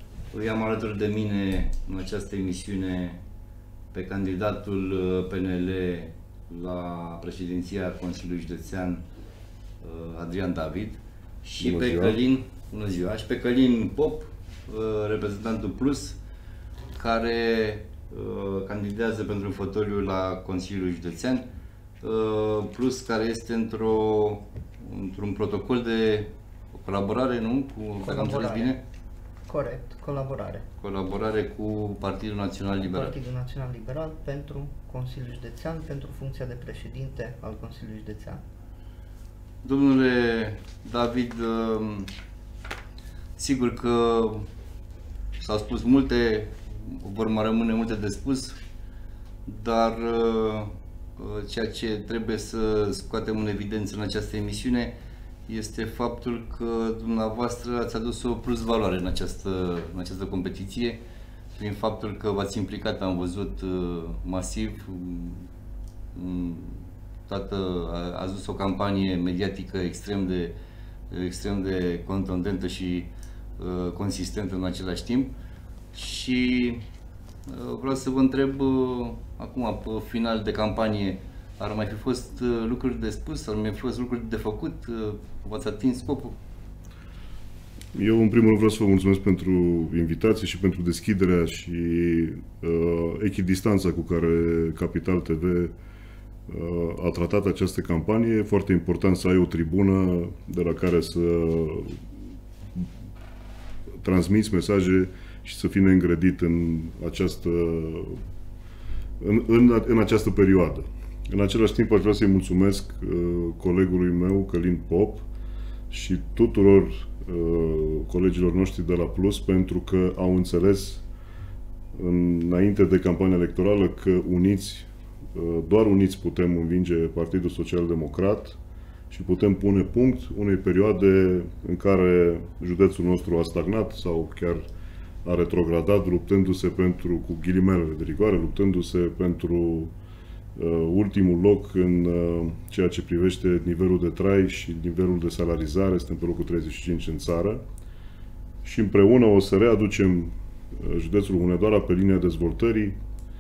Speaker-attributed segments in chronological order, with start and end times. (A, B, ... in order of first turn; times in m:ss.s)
0:00.3-0:03.2 A
0:03.9-0:09.0 A
0:09.8-0:16.2 A
0:11.6-0:12.2 B
0:16.9-0:21.5 A
0:22.0-0:28.8 A
0:28.0-0:28.7 C
0:29.5-0:30.7 C
0:30.8-0:33.2 A
0:32.8-0:38.4 C
0:39.6-0:42.1 A
0:43.4-0:44.5 A
0:45.4-0:48.6 A
0:49.5-0:55.0 A
0:55.5-1:01.0 A
1:01.6-1:05.5 A
1:06.1-1:10.6 A
1:11.1-1:15.4 A
1:15.9-1:16.8 A
1:17.5-1:26.4 A
1:28.0-1:35.8 B
1:36.5-1:42.0 B
1:44.0-1:48.2 B
1:49.2-1:55.2 B
1:55.9-2:01.0 B
2:02.0-2:08.6 B
2:09.1-2:14.6 B
2:15.2-2:19.9 B
2:20.6-2:27.6 B
2:28.6-2:33.0 B